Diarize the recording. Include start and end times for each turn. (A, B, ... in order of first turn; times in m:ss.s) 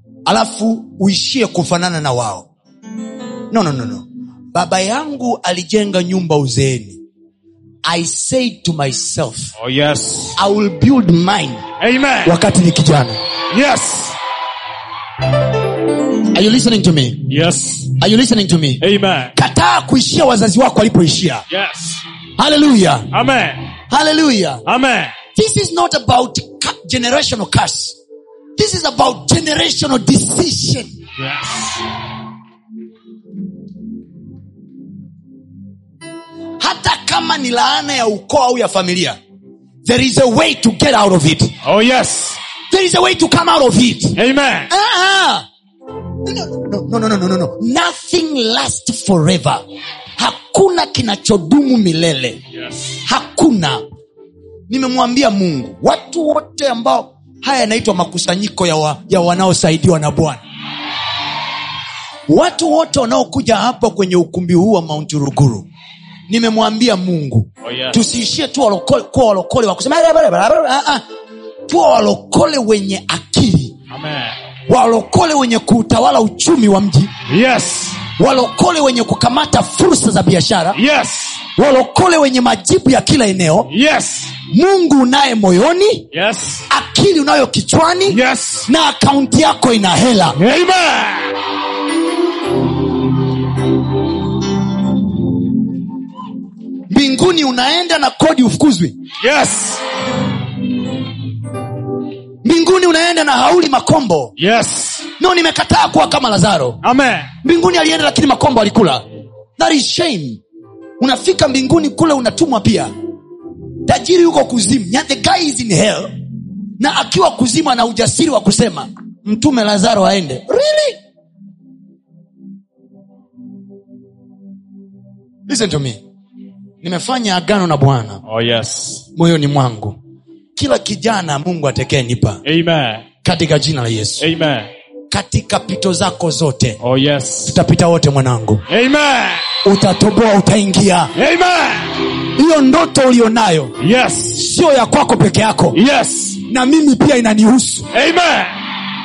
0:00.2-0:02.5 A
0:03.5-0:07.0 A
0:07.8-0:09.5 A
0:09.6-0:10.4 B
0:10.4-0:11.6 A
0:11.8-0:12.4 B
0:12.2-0:13.2 A
0:13.5-0:14.2 B
0:16.3-0:17.3 A
0:17.3-0:18.0 B
0:18.0-0:18.8 A
0:18.8-0:19.3 B
0:19.3-0:21.5 A
0:21.5-0:22.0 B
0:22.4-0:23.1 A
0:23.1-0:23.7 B
0:23.9-0:24.6 A
0:24.6-0:25.2 B
0:25.4-0:28.0 A
0:28.6-0:30.9 A
0:31.2-0:31.9 B
0:36.6-0:39.2 A
0:39.8-0:41.6 A
0:41.6-0:42.4 B
0:42.7-0:44.2 A
0:44.2-0:44.7 B
0:44.7-0:45.5 A
0:46.2-0:49.6 A
0:50.2-0:52.4 A
0:52.5-0:53.0 B
0:53.0-0:53.8 A
0:54.7-1:00.4 A
1:02.3-1:05.7 A
1:06.3-1:11.0 A
1:07.6-1:08.0 B
1:11.7-1:13.8 A
1:13.9-1:14.4 B
1:14.7-1:17.1 A
1:17.3-1:18.0 B
1:18.2-1:20.8 A
1:20.7-1:21.4 B
1:21.6-1:23.7 A
1:23.7-1:24.4 B
1:24.5-1:26.1 A
1:26.1-1:26.7 B
1:26.7-1:30.4 A
1:28.1-1:28.7 B
1:30.4-1:31.4 B
1:36.9-1:39.0 A
1:39.2-1:39.8 B
1:42.4-1:44.3 A
1:44.4-1:45.1 B
1:45.2-1:46.8 A
1:46.8-1:47.3 B
1:47.4-1:49.0 A
1:49.6-1:50.4 A
1:51.0-1:52.9 A
1:53.9-1:56.1 A
1:56.8-2:01.0 A
2:05.5-2:06.0 A
2:06.8-2:08.2 A
2:08.2-2:09.1 B
2:09.2-2:10.0 A
2:10.6-2:12.4 A
2:12.4-2:13.1 B
2:13.2-2:14.3 A
2:14.2-2:14.7 B
2:15.1-2:16.8 A
2:16.8-2:17.6 B
2:17.5-2:18.6 A
2:18.7-2:19.5 B
2:19.6-2:21.1 A
2:21.2-2:22.1 B
2:22.3-2:23.8 A
2:23.8-2:24.4 B
2:24.3-2:25.8 A
2:25.7-2:26.4 B
2:26.4-2:27.9 A
2:27.9-2:28.6 B